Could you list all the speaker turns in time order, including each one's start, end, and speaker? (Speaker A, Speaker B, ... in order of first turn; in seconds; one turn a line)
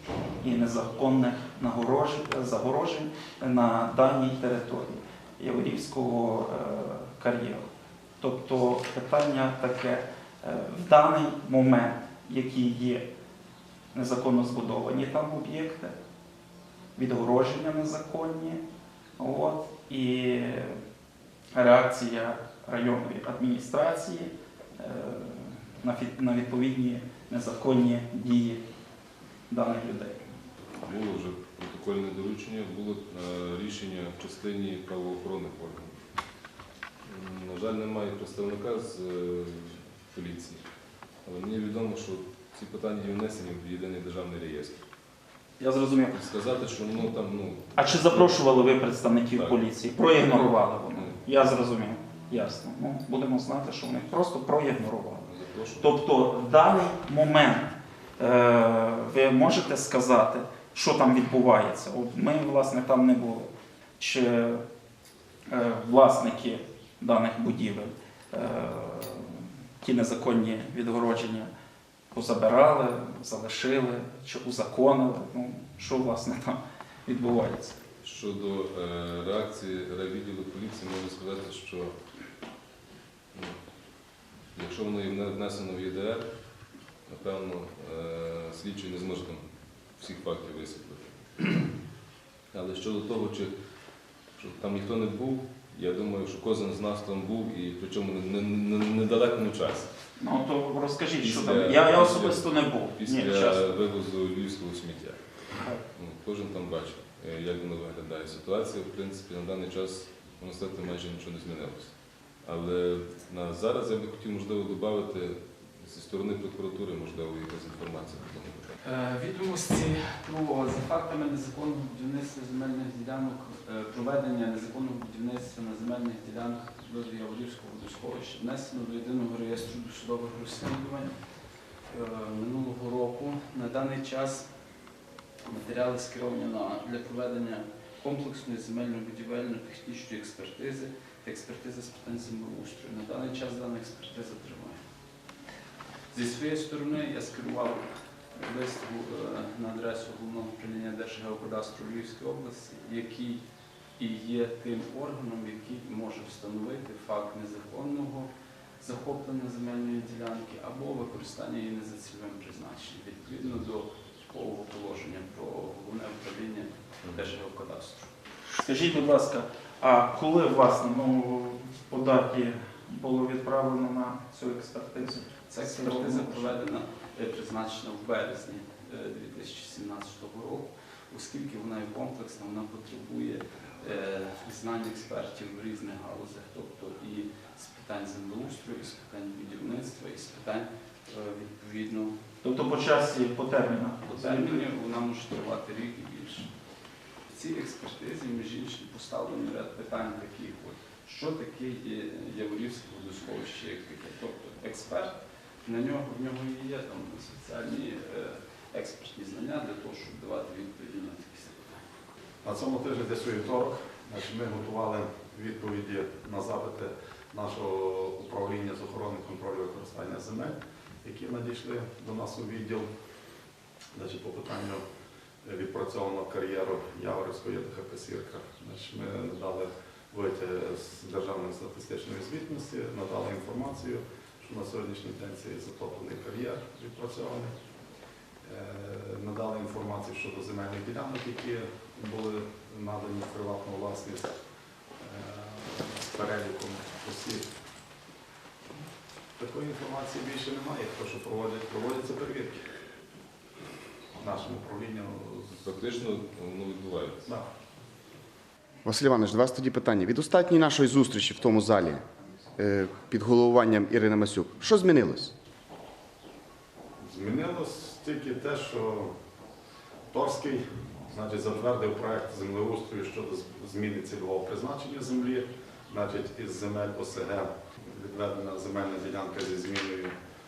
Speaker A: 0.4-7.7
Speaker A: 8.2-13.1
Speaker A: 13.9-16.0
Speaker A: 17.0-18.6
Speaker A: 19.2-20.8
Speaker A: 21.5-28.6
Speaker A: 29.5-30.3
Speaker B: 30.8-36.0
Speaker B: 37.0-40.6
Speaker B: 41.2-44.8
Speaker A: 45.6-46.1
Speaker B: 46.1-48.4
Speaker A: 47.8-55.3
Speaker B: 49.4-51.2
Speaker B: 55.2-55.9
Speaker A: 55.8-64.6
Speaker A: 65.5-71.5
Speaker A: 72.1-77.8
Speaker B: 78.0-82.0
Speaker B: 83.3-83.6
Speaker B: 84.5-86.3
Speaker B: 87.1-91.7
Speaker B: 92.5-93.5
Speaker B: 94.4-99.9
Speaker A: 100.2-103.6
Speaker B: 101.2-105.2
Speaker B: 105.9-111.9
Speaker B: 112.4-118.8
Speaker C: 118.8-131.2
Speaker C: 131.9-134.5
Speaker C: 135.5-144.8
Speaker C: 146.1-147.8
Speaker C: 148.4-153.4
Speaker C: 154.0-158.3
Speaker C: 158.8-168.1
Speaker B: 167.0-167.3
Speaker A: 168.5-176.6
Speaker C: 175.5-192.2
Speaker A: 192.4-194.7
Speaker C: 194.1-196.5
Speaker C: 197.3-211.8
Speaker D: 212.4-222.9
Speaker D: 223.9-224.8
Speaker D: 225.4-237.6
Speaker D: 238.4-244.3
Speaker D: 245.0-247.5
Speaker D: 249.4-252.6
Speaker D: 254.2-255.7
Speaker B: 255.6-257.3
Speaker E: 258.9-262.0
Speaker E: 262.6-265.3
Speaker D: 267.0-269.1
Speaker D: 270.1-280.1